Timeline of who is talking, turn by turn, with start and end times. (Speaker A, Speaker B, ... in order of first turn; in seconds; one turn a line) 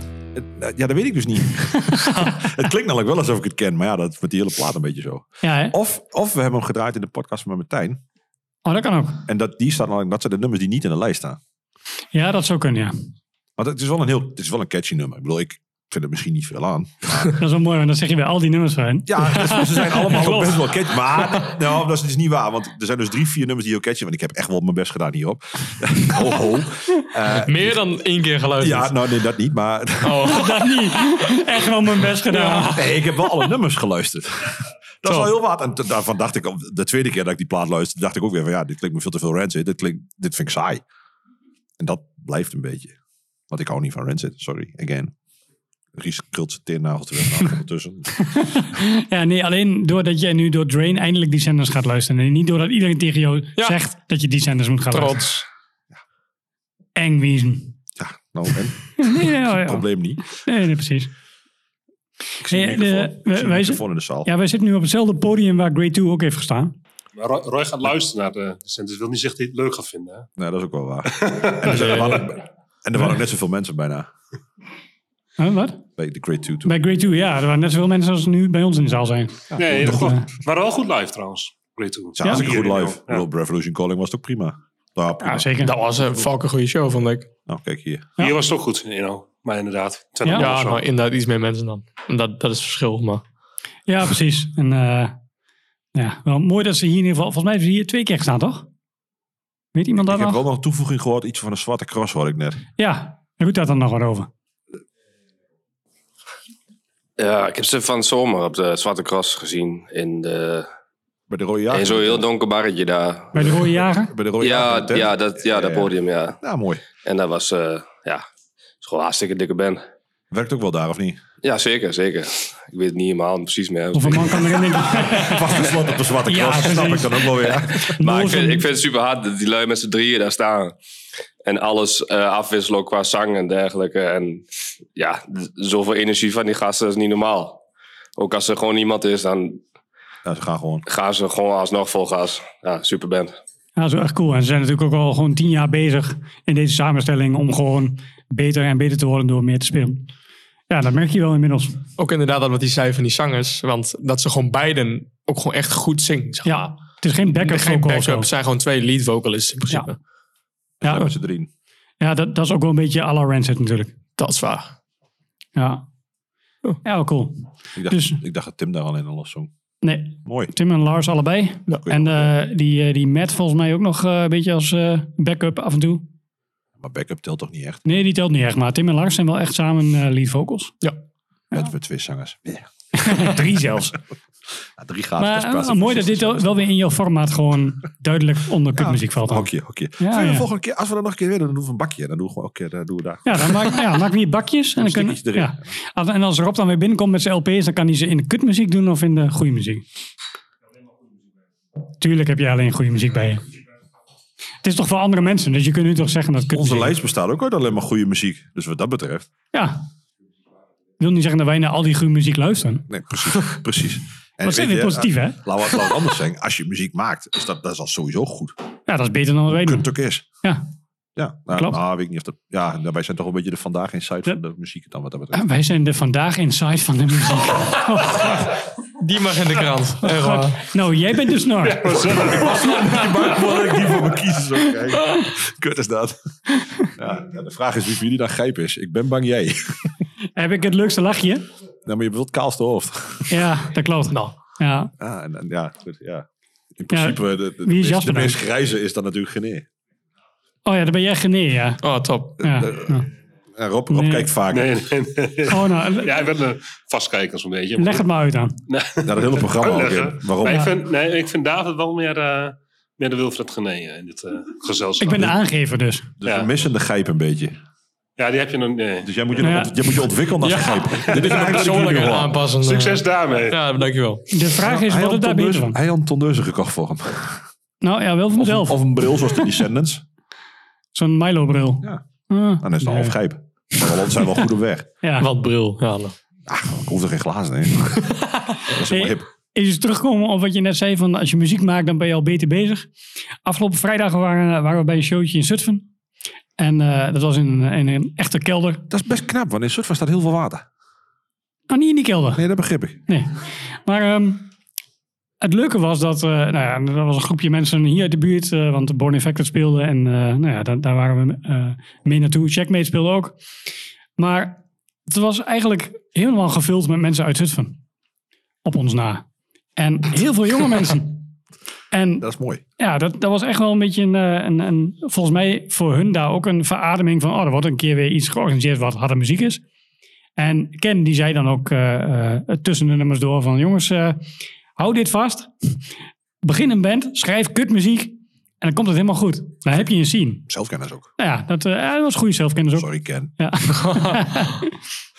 Speaker A: 0.3-8.0
Speaker B: 1.9-2.4
Speaker B: 5.4-5.8
Speaker B: 8.7-9.2
Speaker A: 9.3-11.4
Speaker B: 12.1-12.9
Speaker A: 13.6-17.3
Speaker B: 17.3-20.6
Speaker A: 19.1-27.9
Speaker C: 27.3-28.9
Speaker A: 28.6-30.7
Speaker C: 30.0-30.6
Speaker B: 30.2-32.7
Speaker C: 32.3-32.8
Speaker A: 32.6-40.8
Speaker C: 35.0-35.3
Speaker A: 41.8-43.0
Speaker A: 43.5-45.1
Speaker A: 46.0-48.3
Speaker B: 48.3-55.4
Speaker C: 54.9-55.4
Speaker B: 57.0-57.8
Speaker A: 58.0-60.4
Speaker B: 59.0-61.1
Speaker A: 62.4-64.3
Speaker B: 62.5-66.7
Speaker D: 67.2-70.3
Speaker A: 70.4-74.1
Speaker D: 71.2-72.2
Speaker C: 71.7-72.2
Speaker B: 75.4-75.8
Speaker A: 76.0-76.8
Speaker B: 76.7-80.2
Speaker D: 79.6-83.2
Speaker A: 79.6-80.1
Speaker A: 82.2-85.5
Speaker B: 82.2-82.5
Speaker B: 85.2-85.7
Speaker C: 85.6-87.3
Speaker A: 87.5-88.1
Speaker D: 88.2-90.8
Speaker B: 90.2-90.5
Speaker C: 90.3-93.2
Speaker B: 93.9-95.2
Speaker B: 96.0-98.7
Speaker B: 99.8-100.4
Speaker A: 100.0-102.6
Speaker B: 102.8-104.3
Speaker E: 107.2-110.7
Speaker A: 111.3-112.3
Speaker E: 111.7-113.5
Speaker B: 113.3-114.1
Speaker A: 113.4-116.8
Speaker E: 114.4-116.4
Speaker E: 117.0-118.2
Speaker E: 118.8-119.8
Speaker A: 120.3-121.2
Speaker E: 121.4-124.5
Speaker B: 123.9-125.5
Speaker A: 124.8-128.1
Speaker B: 126.3-127.3
Speaker B: 127.9-128.7
Speaker E: 128.0-130.8
Speaker E: 131.4-137.6
Speaker E: 138.2-139.6
Speaker A: 140.2-140.9
Speaker E: 140.9-143.3
Speaker B: 143.8-150.1
Speaker B: 150.7-151.8
Speaker C: 152.0-156.7
Speaker B: 156.4-158.3
Speaker C: 157.3-160.0
Speaker A: 160.8-161.5
Speaker B: 160.8-161.1
Speaker B: 162.0-163.9
Speaker C: 164.2-164.7
Speaker B: 165.6-165.8
Speaker B: 166.8-168.2
Speaker A: 167.8-169.5
Speaker B: 169.8-176.1
Speaker A: 170.2-170.5
Speaker A: 171.8-172.3
Speaker A: 176.8-177.8
Speaker B: 177.8-180.8
Speaker A: 181.5-183.8
Speaker B: 183.0-183.9
Speaker A: 184.8-186.6
Speaker B: 185.2-190.5
Speaker A: 188.8-193.8
Speaker B: 193.3-199.8
Speaker A: 194.8-195.7
Speaker B: 202.0-203.4
Speaker B: 204.6-206.9
Speaker A: 206.5-209.3
Speaker B: 209.5-209.8
Speaker B: 211.0-212.9
Speaker A: 212.9-218.6
Speaker B: 214.4-215.8
Speaker B: 218.9-219.9
Speaker A: 219.5-220.2
Speaker A: 221.2-225.5
Speaker B: 225.3-228.5
Speaker C: 229.0-230.6
Speaker B: 230.0-232.2
Speaker D: 231.6-232.9
Speaker A: 232.1-236.3
Speaker B: 236.6-236.9
Speaker A: 236.8-239.9
Speaker B: 240.4-241.4
Speaker A: 241.9-243.5
Speaker B: 243.3-244.9
Speaker A: 245.0-249.7
Speaker B: 246.9-248.4
Speaker B: 250.7-251.8
Speaker C: 251.8-252.4
Speaker B: 252.4-253.1
Speaker A: 252.4-253.0
Speaker A: 253.6-254.8
Speaker B: 253.9-254.3
Speaker D: 254.5-258.1
Speaker B: 255.5-256.2
Speaker B: 257.8-258.6
Speaker D: 258.7-265.3
Speaker A: 259.1-260.6
Speaker B: 265.0-266.1
Speaker A: 266.2-267.6
Speaker D: 266.2-266.5
Speaker D: 268.2-269.1
Speaker A: 269.0-272.4
Speaker B: 269.4-269.7
Speaker C: 270.4-274.2
Speaker D: 271.1-271.7
Speaker D: 272.6-273.6
Speaker B: 274.3-275.8
Speaker A: 274.6-277.4
Speaker B: 277.8-278.9
Speaker A: 278.4-280.0
Speaker B: 280.9-283.2
Speaker A: 282.6-284.9
Speaker C: 285.2-286.1
Speaker A: 286.5-288.1
Speaker A: 288.7-289.3
Speaker B: 288.9-292.9
Speaker B: 293.4-295.9
Speaker B: 296.6-298.8
Speaker A: 298.9-300.7
Speaker B: 301.7-302.4
Speaker A: 302.3-303.0
Speaker B: 303.1-304.5
Speaker B: 305.4-313.4
Speaker B: 314.2-317.8
Speaker B: 318.6-319.2
Speaker B: 319.8-321.2
Speaker B: 321.9-322.3
Speaker A: 322.2-322.6
Speaker B: 322.8-329.6
Speaker B: 330.4-334.2
Speaker B: 334.8-335.8
Speaker B: 336.4-340.4
Speaker A: 340.5-341.1
Speaker B: 341.2-344.7
Speaker A: 342.8-343.3